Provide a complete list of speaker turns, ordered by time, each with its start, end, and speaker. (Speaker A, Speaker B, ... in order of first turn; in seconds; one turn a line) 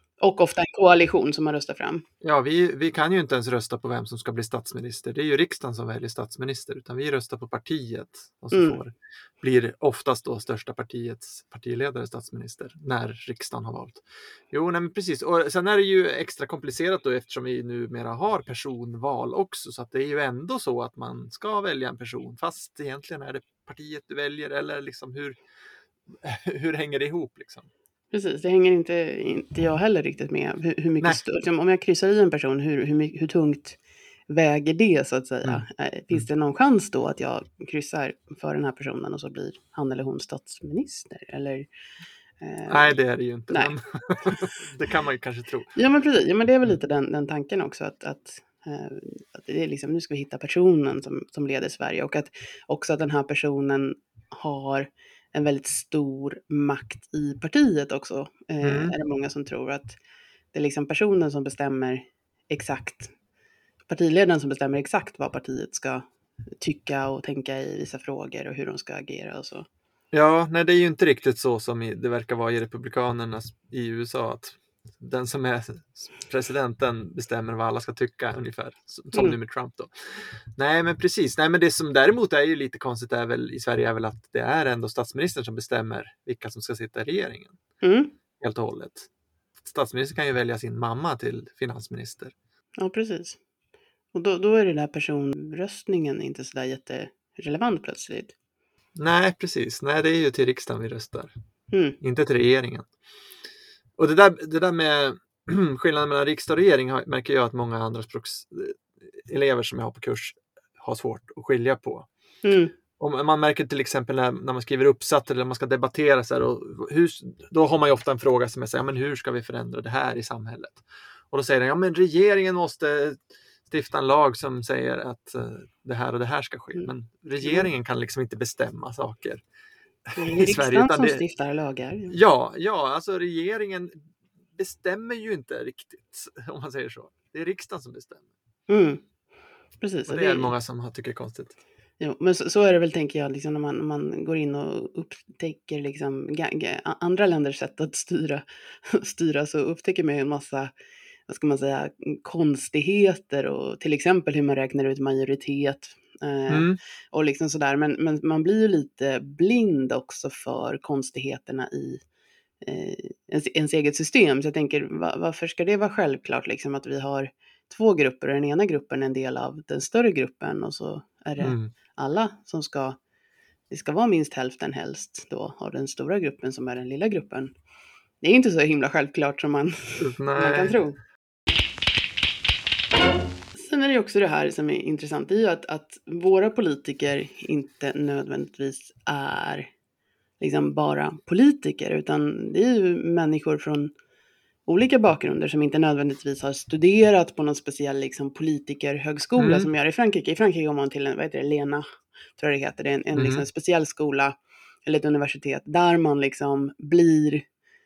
Speaker A: 0.2-2.0
Speaker B: 2.2-25.4
Speaker A: 8.5-8.8
Speaker B: 26.2-27.7
Speaker A: 28.1-33.8
Speaker A: 34.3-41.7
Speaker B: 35.4-36.3
Speaker A: 42.4-43.7
Speaker B: 42.7-45.7
Speaker A: 45.7-60.0
Speaker B: 58.6-58.9
Speaker A: 60.5-63.1
Speaker A: 63.9-66.1
Speaker A: 66.6-69.7
Speaker B: 70.1-87.6
Speaker A: 87.8-88.1
Speaker B: 88.4-89.1
Speaker B: 89.6-92.3
Speaker A: 92.8-93.4
Speaker A: 94.1-98.3
Speaker B: 99.0-101.3
Speaker A: 101.7-102.0
Speaker B: 102.0-102.9
Speaker B: 104.0-112.1
Speaker A: 112.4-112.7
Speaker B: 113.0-129.4
Speaker A: 126.8-127.7
Speaker B: 130.1-131.2
Speaker A: 130.2-132.2
Speaker B: 132.1-133.9
Speaker B: 134.6-138.2
Speaker A: 138.7-139.0
Speaker A: 139.8-140.5
Speaker B: 140.1-141.6
Speaker A: 142.0-150.7
Speaker A: 151.3-162.0
Speaker B: 156.5-156.8
Speaker A: 162.6-173.0
Speaker B: 171.4-171.7
Speaker A: 173.7-177.5
Speaker A: 178.2-181.0
Speaker B: 180.0-180.8
Speaker A: 183.6-189.7
Speaker A: 190.4-193.9
Speaker A: 194.7-201.8
Speaker B: 199.4-199.7
Speaker A: 202.4-207.4
Speaker B: 203.1-203.4